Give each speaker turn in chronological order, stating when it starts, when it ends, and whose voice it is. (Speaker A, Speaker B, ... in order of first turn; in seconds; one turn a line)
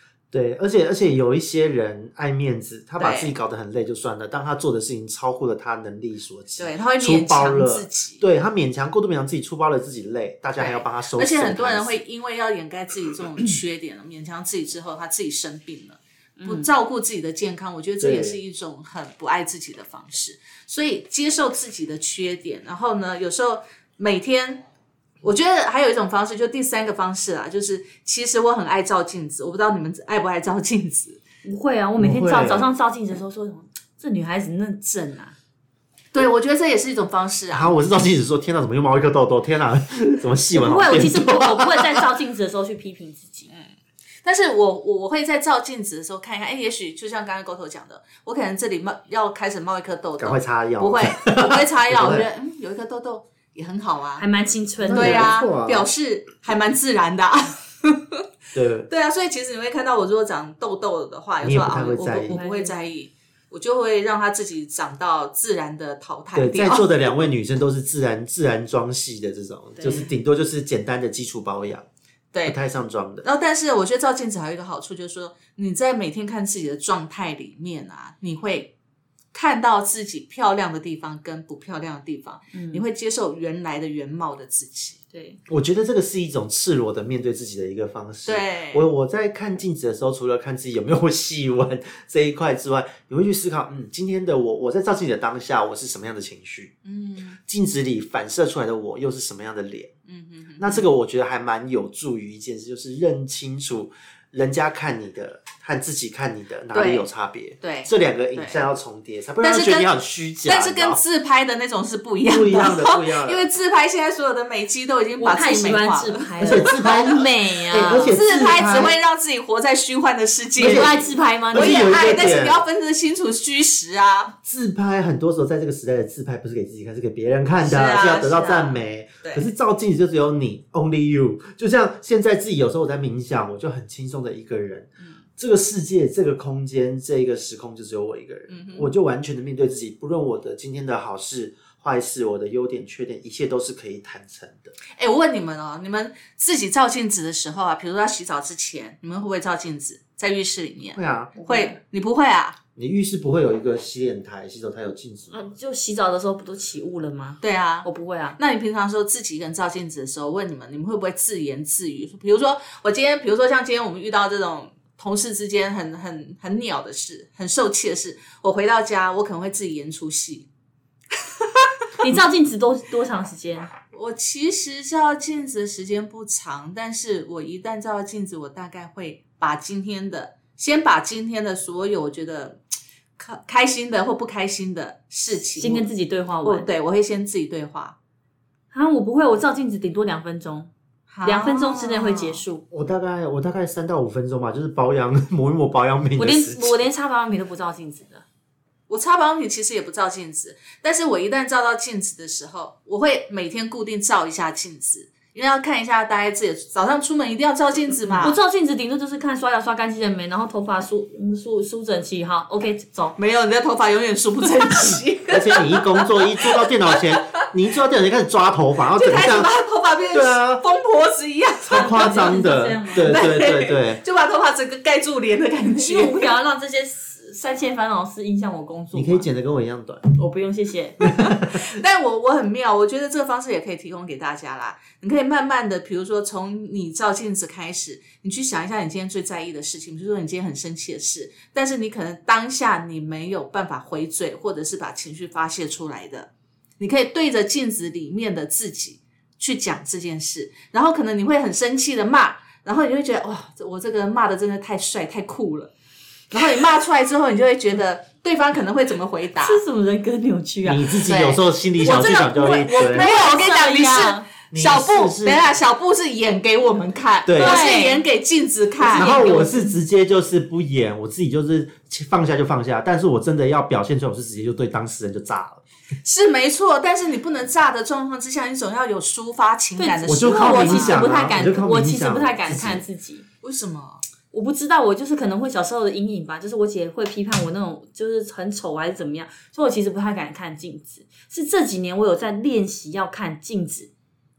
Speaker A: 0.3-12.0
Speaker B: 3.0-3.3
Speaker B: 6.6-8.2
Speaker B: 10.6-24.6
Speaker C: 16.4-16.7
Speaker A: 18.0-18.4
Speaker B: 25.2-31.2
Speaker C: 31.4-35.4
Speaker A: 32.0-32.7
Speaker B: 36.1-37.7
Speaker A: 37.5-42.0
Speaker C: 40.5-43.5
Speaker B: 44.2-54.2
Speaker A: 50.2-52.3
Speaker C: 54.2-55.4
Speaker A: 54.8-55.9
Speaker B: 54.9-58.2
Speaker A: 58.5-58.9
Speaker B: 58.9-66.9
Speaker A: 61.4-62.4
Speaker C: 62.3-62.7
Speaker A: 66.3-71.9
Speaker A: 72.4-73.2
Speaker B: 73.2-78.7
Speaker B: 79.3-85.0
Speaker C: 82.5-82.8
Speaker C: 85.1-85.4
Speaker A: 85.5-96.7
Speaker B: 88.2-88.9
Speaker B: 96.8-97.4
Speaker A: 97.5-99.9
Speaker B: 100.1-100.8
Speaker A: 100.6-111.0
Speaker B: 106.7-107.1
Speaker B: 107.6-108.6
Speaker B: 109.4-109.9
Speaker B: 110.4-117.1
Speaker A: 112.2-113.4
Speaker C: 115.2-118.2
Speaker A: 116.4-118.9
Speaker B: 118.0-124.3
Speaker A: 120.6-121.0
Speaker C: 120.6-121.9
Speaker A: 121.5-122.6
Speaker A: 124.4-144.7
Speaker B: 127.6-129.5
Speaker B: 138.5-138.9
Speaker B: 145.0-152.6
Speaker A: 150.9-151.4
Speaker C: 151.4-151.7
Speaker A: 152.8-155.4
Speaker C: 155.3-158.4
Speaker B: 157.4-170.5
Speaker C: 172.0-173.7
Speaker B: 173.9-182.6
Speaker B: 183.2-185.9
Speaker C: 185.6-186.7
Speaker B: 186.4-187.9
Speaker C: 188.7-190.7
Speaker B: 191.1-192.4
Speaker C: 191.2-192.6
Speaker A: 192.7-196.8
Speaker C: 196.2-198.2
Speaker B: 198.9-208.3
Speaker C: 208.2-213.2
Speaker B: 213.2-216.7
Speaker A: 215.3-219.5
Speaker B: 218.9-222.1
Speaker A: 220.1-220.6
Speaker A: 221.7-224.0
Speaker C: 221.7-223.2
Speaker B: 222.9-226.3
Speaker C: 225.8-229.3
Speaker A: 228.9-230.1
Speaker C: 230.2-231.2
Speaker A: 231.1-231.6
Speaker B: 231.5-255.7
Speaker B: 256.3-259.6
Speaker C: 259.4-261.0
Speaker A: 260.6-263.1
Speaker B: 261.0-262.2
Speaker C: 261.8-264.3
Speaker B: 262.7-269.6
Speaker A: 264.5-265.4
Speaker A: 267.2-267.7
Speaker C: 267.4-268.0
Speaker C: 268.8-269.6
Speaker A: 268.9-275.6
Speaker B: 276.0-281.2
Speaker C: 279.8-283.2
Speaker A: 280.1-282.8
Speaker B: 283.4-284.0
Speaker C: 284.3-293.9